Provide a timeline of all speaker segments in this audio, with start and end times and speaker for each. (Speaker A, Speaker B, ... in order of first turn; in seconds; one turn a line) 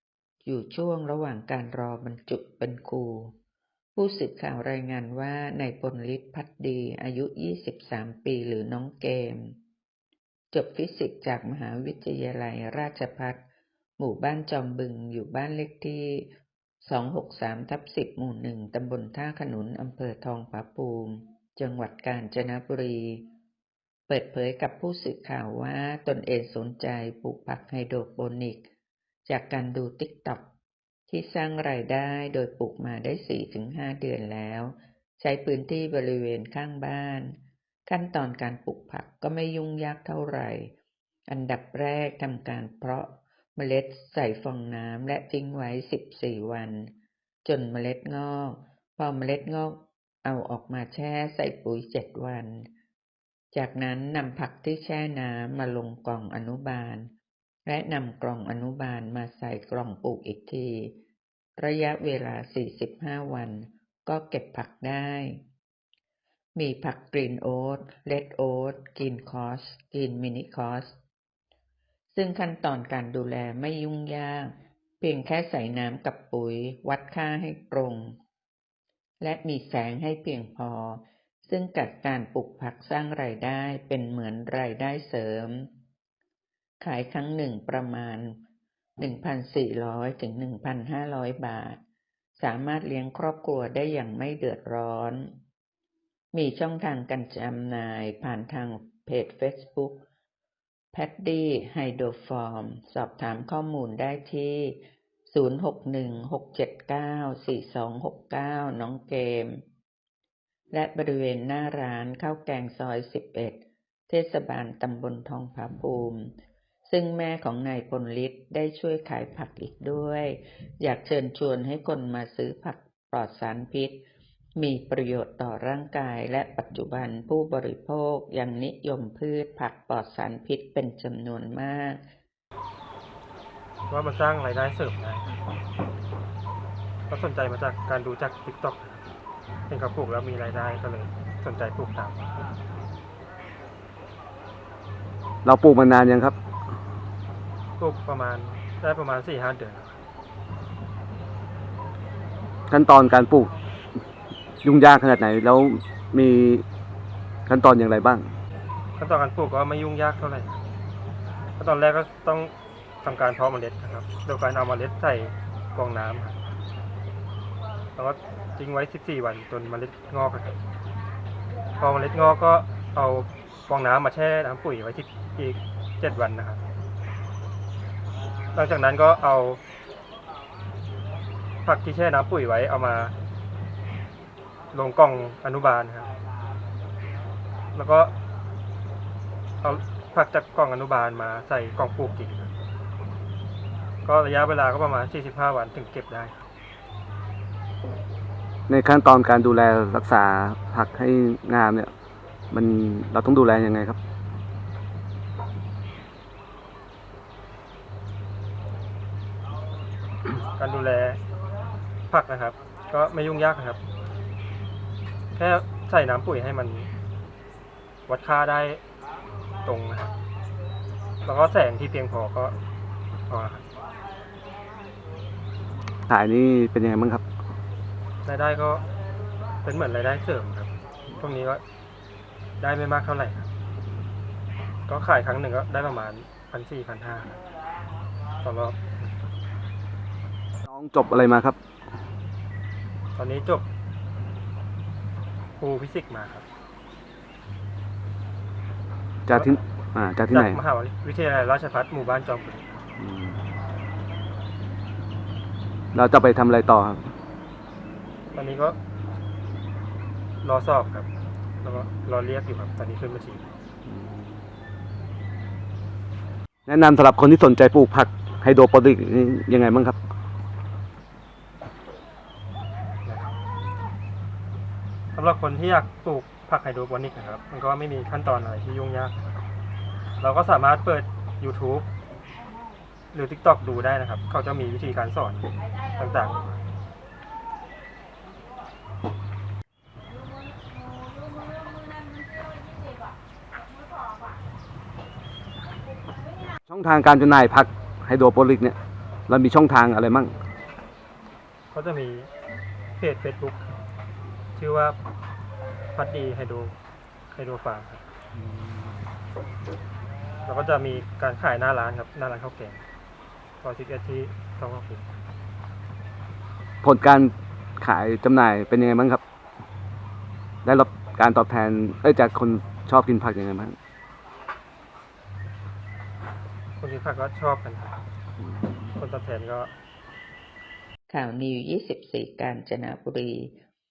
Speaker A: 0.4-3.3
Speaker A: 4.0-9.6
Speaker A: 10.5-13.4
Speaker A: 14.0-16.3
Speaker A: 16.8-23.3
Speaker A: 24.1-28.7
Speaker A: 29.3-30.5
Speaker A: 31.1-40.7
Speaker A: 41.3-46.9
Speaker A: 47.4-52.7
Speaker A: 53.5-57.1
Speaker A: 57.7-61.0
Speaker A: 61.6-65.4
Speaker A: 66.5-71.0
Speaker A: 72.1-78.2
Speaker A: 79.2-85.7
Speaker A: 86.8-88.4
Speaker A: 89.0-91.8
Speaker A: 92.4-95.3
Speaker A: 96.3-100.0
Speaker A: 100.9-109.6
Speaker A: 110.7-116.3
Speaker A: 116.9-124.0
Speaker A: 124.6-132.0
Speaker B: 133.9-135.3
Speaker B: 137.1-139.1
Speaker B: 139.7-142.4
Speaker C: 145.4-146.4
Speaker B: 147.8-149.9
Speaker C: 152.7-153.5
Speaker C: 154.6-156.7
Speaker C: 157.5-158.3
Speaker B: 159.0-160.6
Speaker B: 161.6-166.4
Speaker B: 167.9-170.6
Speaker B: 171.8-176.6
Speaker B: 178.5-179.6
Speaker B: 181.6-183.2
Speaker B: 184.7-186.1
Speaker B: 187.7-188.1
Speaker B: 189.6-192.5
Speaker B: 194.0-196.4
Speaker C: 198.7-201.9
Speaker C: 202.5-204.0
Speaker B: 210.6-211.2
Speaker B: 212.1-213.8
Speaker B: 215.3-216.9
Speaker B: 218.1-218.8
Speaker B: 219.6-220.1
Speaker B: 221.2-222.6
Speaker B: 223.3-223.7
Speaker C: 226.1-227.2
Speaker B: 228.2-228.8
Speaker B: 229.6-231.6
Speaker B: 232.6-233.5
Speaker B: 234.9-237.4
Speaker B: 238.4-238.8
Speaker C: 240.7-241.6
Speaker B: 243.2-243.7
Speaker B: 245.6-246.4
Speaker C: 249.3-250.6
Speaker B: 250.3-252.7
Speaker C: 253.0-253.4
Speaker C: 255.9-257.1
Speaker B: 258.3-258.8
Speaker B: 260.4-261.1
Speaker B: 261.6-263.5
Speaker C: 263.9-264.4
Speaker C: 266.7-270.0
Speaker B: 273.1-273.3
Speaker B: 275.1-279.2
Speaker B: 280.2-281.9
Speaker B: 283.1-286.5
Speaker C: 296.7-298.8
Speaker C: 299.3-300.4
Speaker B: 301.7-302.3
Speaker B: 303.0-303.6
Speaker B: 304.6-305.0
Speaker B: 305.9-306.7
Speaker B: 307.3-308.0
Speaker C: 308.5-308.9
Speaker B: 310.4-312.8
Speaker B: 313.6-315.1
Speaker C: 316.8-319.2
Speaker C: 320.6-323.8
Speaker B: 326.8-328.0
Speaker C: 328.6-328.9
Speaker B: 329.0-329.7
Speaker A: 331.1-333.6